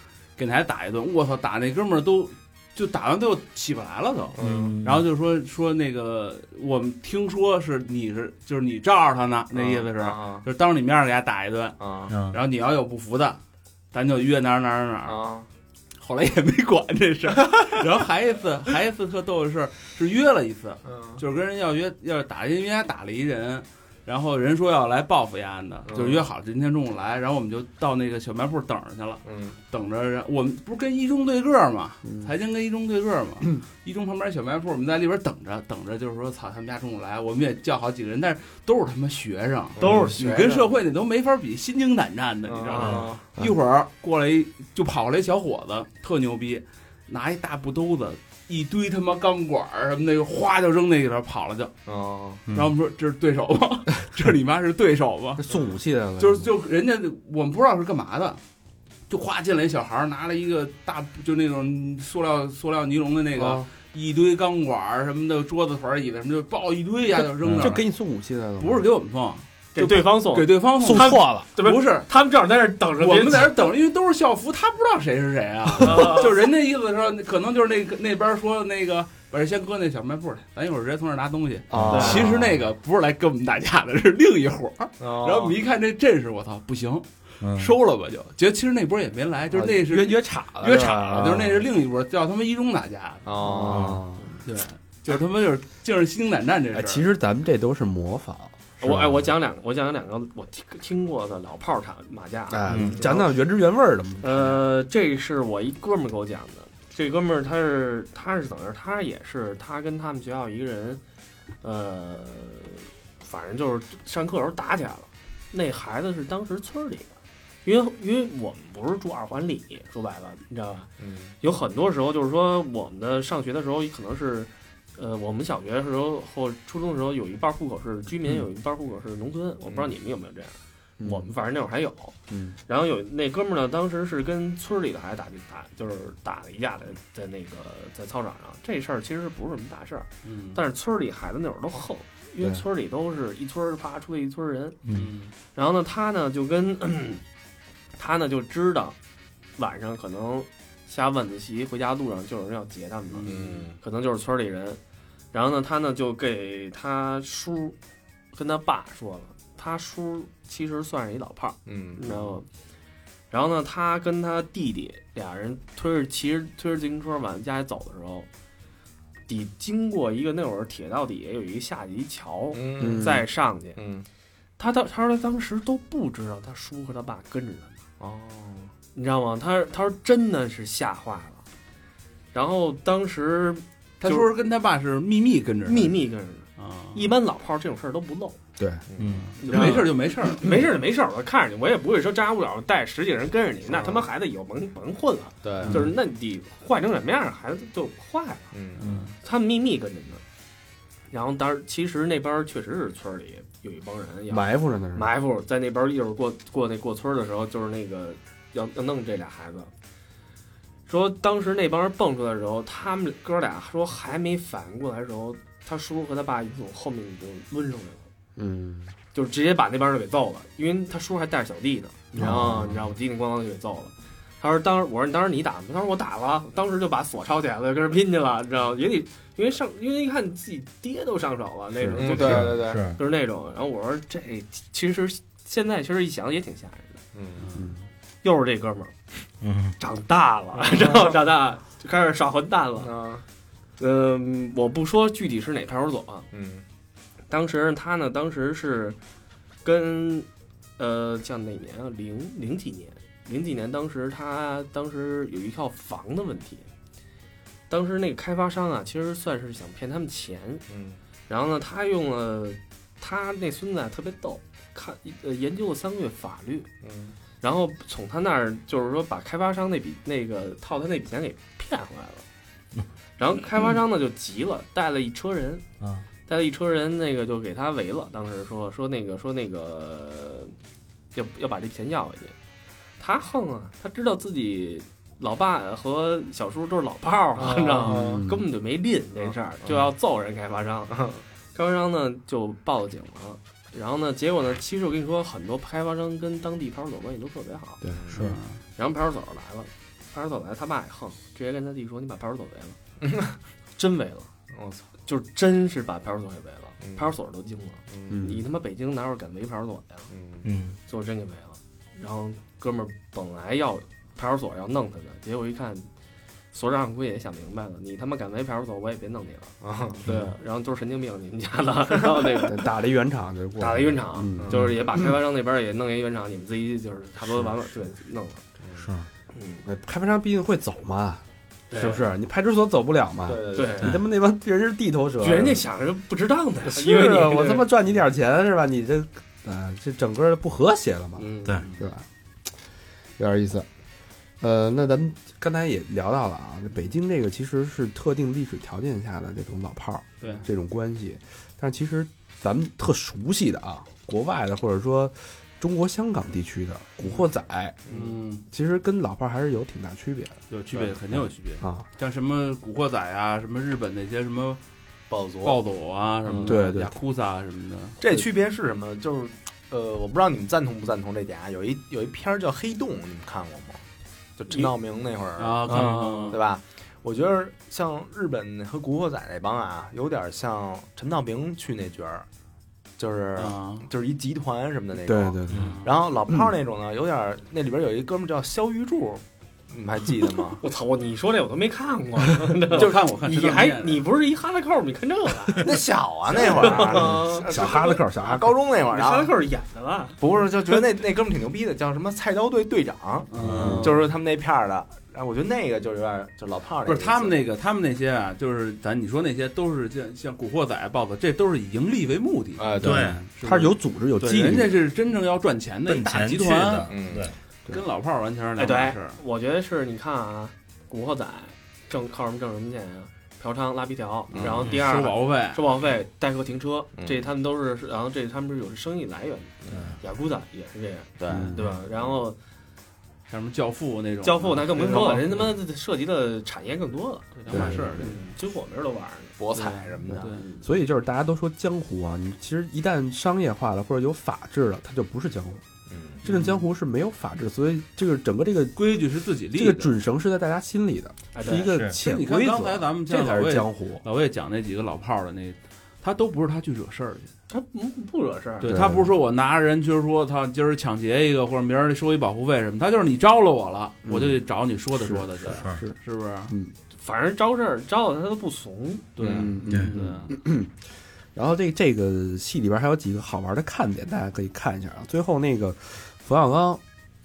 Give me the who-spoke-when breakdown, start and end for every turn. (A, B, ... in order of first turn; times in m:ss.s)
0:00.4-0:11.8 A
0:04.4-0:04.8 B
0:04.4-0:05.1 C
0:09.5-0:10.4 B
0:11.8-0:12.2 B
0:12.1-0:12.4 C
0:12.3-0:13.4 A
0:13.9-0:15.2 A
0:15.0-0:15.5 B
0:16.0-0:51.7 A
0:20.8-0:21.2 B
0:25.9-0:26.3 B
0:29.2-0:29.6 B
0:32.0-0:32.3 D
0:39.8-0:40.2 E
0:39.8-0:40.6 B
0:42.5-0:43.2 B
0:42.7-0:43.0 E
0:42.8-0:43.1 C
0:51.9-0:52.4 B
0:52.5-0:55.4 A
0:55.4-0:56.5 D
0:56.2-0:58.4 A
0:59.1-1:07.9 A
1:07.5-1:08.9 D
1:08.6-1:12.1 A
1:09.8-1:13.7 E
1:10.8-1:11.5 D
1:13.0-1:33.8 A
1:15.8-1:16.3 E
1:21.7-1:22.6 D
1:21.7-1:22.1 C
1:21.9-1:22.3 E
1:25.0-1:25.6 B
1:27.4-1:27.7 C
1:29.5-1:31.7 D
1:33.2-1:34.0 B
1:33.4-1:34.2 D
1:34.4-1:37.1 A
1:36.7-1:39.2 D
1:38.8-1:43.4 E
1:42.5-1:44.7 D
1:42.7-1:43.0 C
1:42.7-1:43.0 B
1:44.2-1:51.0 E
1:51.6-1:57.1 E
1:57.6-2:00.9 E
2:01.0-2:01.4 B
2:01.4-2:12.2 E
2:09.7-2:09.9 B
2:11.0-2:11.3 D
2:12.3-2:12.6 D
2:12.7-2:24.8 E
2:20.2-2:20.6 A
2:24.8-2:25.1 C
2:24.9-2:25.4 A
2:25.6-2:27.2 E
2:28.0-2:29.0 E
2:29.6-2:34.8 E
2:33.1-2:33.7 A
2:33.3-2:33.8 B
2:35.3-2:37.8 E
2:38.3-2:42.5 E
2:41.7-2:42.4 B
2:43.3-2:48.3 E
2:49.3-2:53.8 E
2:52.5-2:53.1 B
2:52.8-2:53.2 D
2:53.8-2:54.1 B
2:54.6-2:57.8 E
2:58.0-2:58.7 B
2:58.9-3:01.4 E
3:02.3-3:04.3 E
3:04.0-3:06.0 A
3:05.7-3:08.4 E
3:06.6-3:07.1 A
3:08.6-3:08.8 D
3:08.9-3:09.7 B
3:09.0-3:09.4 C
3:09.2-3:10.5 A
3:09.4-3:18.5 E
3:13.7-3:14.1 B
3:15.4-3:15.8 B
3:18.5-3:18.8 B
3:18.8-3:19.2 A
3:18.8-3:19.1 C
3:19.2-3:20.2 E
3:21.1-3:29.7 E
3:24.3-3:25.1 D
3:30.9-3:38.1 E
3:38.4-3:38.9 D
3:39.1-3:57.0 E
3:42.1-3:42.8 D
3:51.8-3:52.5 D
3:52.0-3:52.8 B
3:52.2-3:53.0 C
3:57.2-3:57.5 B
3:57.4-3:57.6 A
3:57.6-3:57.8 D
3:58.2-3:59.0 E
3:59.4-3:59.8 C
3:59.8-4:02.9 E
4:00.6-4:01.2 B
4:02.8-4:03.2 B
4:03.8-4:06.3 E
4:06.3-4:06.6 B
4:07.3-4:09.0 E
4:09.6-4:10.3 E
4:10.8-4:16.7 E
4:17.7-4:20.6 E
4:20.7-4:21.0 B
4:21.3-4:26.7 E
4:26.8-4:27.2 B
4:27.4-4:32.2 E
4:33.2-4:35.6 E
4:36.3-4:40.6 E
4:41.2-4:42.4 E
4:43.0-4:57.8 E
4:47.4-4:48.2 B
4:47.8-4:48.4 D
4:57.8-4:58.4 D
4:58.2-4:58.6 A
4:58.8-5:02.8 E
5:03.0-5:03.4 B
5:03.8-5:04.3 E
5:04.5-5:04.9 B
5:05.1-5:10.1 E
5:06.8-5:07.1 B
5:07.9-5:08.2 B
5:08.1-5:08.5 D
5:10.1-5:10.4 B
5:10.4-5:10.8 C
5:10.9-5:15.9 E
5:16.5-5:22.6 E
5:19.6-5:20.0 B
5:20.1-5:20.3 C
5:22.4-5:25.1 D
5:23.6-5:28.4 E
5:24.4-5:24.7 B
5:28.6-5:28.9 B
5:28.8-5:29.1 C
5:29.3-5:29.6 E
5:29.6-5:35.6 D
5:31.7-5:32.1 E
5:33.3-5:34.0 B
5:33.6-5:34.0 E
5:35.2-5:37.7 E
5:36.6-5:42.0 D
5:41.2-5:41.7 E
5:43.2-5:43.7 D
5:44.4-5:57.8 D
5:57.9-5:58.2 B
5:57.9-5:58.4 A
5:58.5-6:00.4 D
6:00.5-6:04.6 A
6:01.1-6:01.9 D
6:05.1-6:05.6 B
6:05.4-6:08.0 A
6:06.4-6:06.9 D
6:08.0-6:13.8 B
6:14.4-6:22.3 B
6:15.4-6:16.4 A
6:23.0-6:30.6 B
6:23.4-6:23.9 A
6:25.0-6:25.8 D
6:25.5-6:25.8 C
6:25.6-6:26.0 A
6:30.6-6:35.7 E
6:32.7-6:34.1 A
6:35.6-6:39.3 B
6:36.3-6:37.5 E
6:36.7-6:38.5 D
6:38.9-6:40.2 E
6:40.2-6:47.4 B
6:43.3-6:44.1 A
6:43.4-6:43.9 C
6:43.4-6:43.9 D
6:46.8-6:56.9 A
6:52.6-6:53.1 B
6:52.8-6:54.8 D
6:52.8-6:53.3 C
6:55.9-6:57.4 C
6:56.9-6:57.3 B
6:57.7-6:59.2 A
6:58.6-7:12.4 E
7:04.3-7:04.7 B
7:04.7-7:05.6 A
7:07.0-7:07.2 B
7:09.7-7:10.0 C
7:11.2-7:12.2 B
7:11.3-7:11.7 D
7:13.3-7:15.5 A
7:14.2-7:20.6 E
7:14.9-7:15.2 B
7:17.5-7:18.2 A
7:17.5-7:18.2 D
7:19.4-7:20.3 B
7:20.1-7:20.4 A
7:20.6-7:25.6 D
7:25.9-7:26.2 B
7:26.2-7:26.7 A
7:26.2-7:28.9 D
7:28.8-7:29.9 A
7:29.5-7:34.0 D
7:31.3-7:31.7 E
7:31.7-7:32.0 C
7:32.0-7:37.3 A
7:37.5-7:38.7 E
7:38.6-7:46.5 A
7:38.6-7:39.2 D
7:44.1-7:44.4 D
7:45.0-7:46.0 D
7:45.4-7:45.8 C
7:46.5-7:46.7 D
7:47.0-7:49.4 E
7:49.2-7:50.3 A
7:49.2-7:50.8 D
7:49.7-7:49.9 C
7:51.3-7:56.8 D